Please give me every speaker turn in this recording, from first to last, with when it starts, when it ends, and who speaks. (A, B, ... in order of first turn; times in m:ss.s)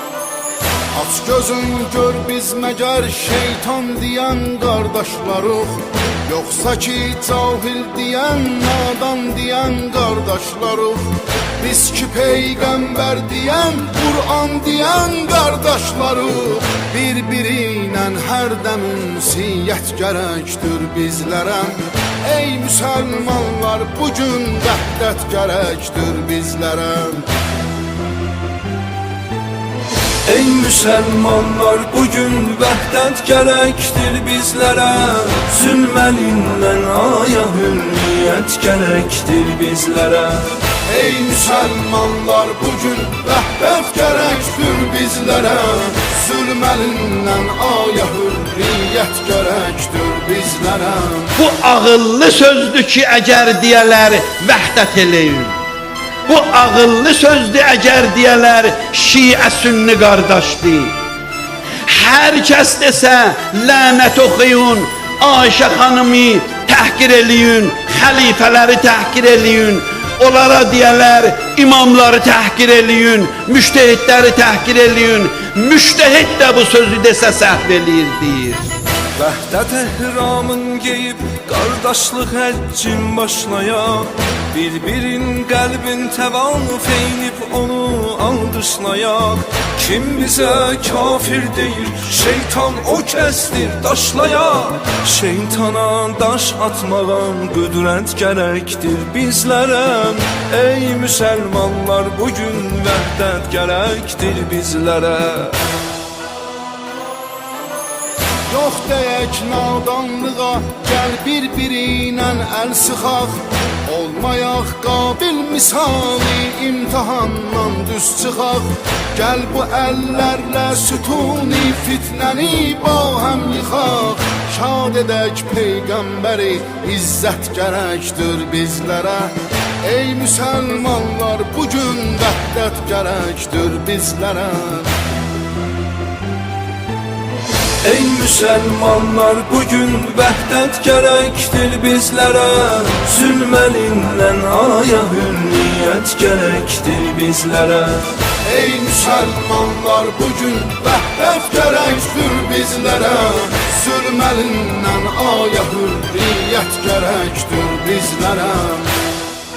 0:00.9-0:11.1 A
0:11.6-0:27.2 A
0:30.2-0:40.6 B
0:40.8-0:51.4 A
0:51.4-0:55.6 C
0:56.3-1:00.9 C
1:01.8-1:18.6 C
1:19.2-1:45.6 B
1:48.5-2:14.9 A
2:17.8-2:28.2 B
2:28.4-2:38.9 A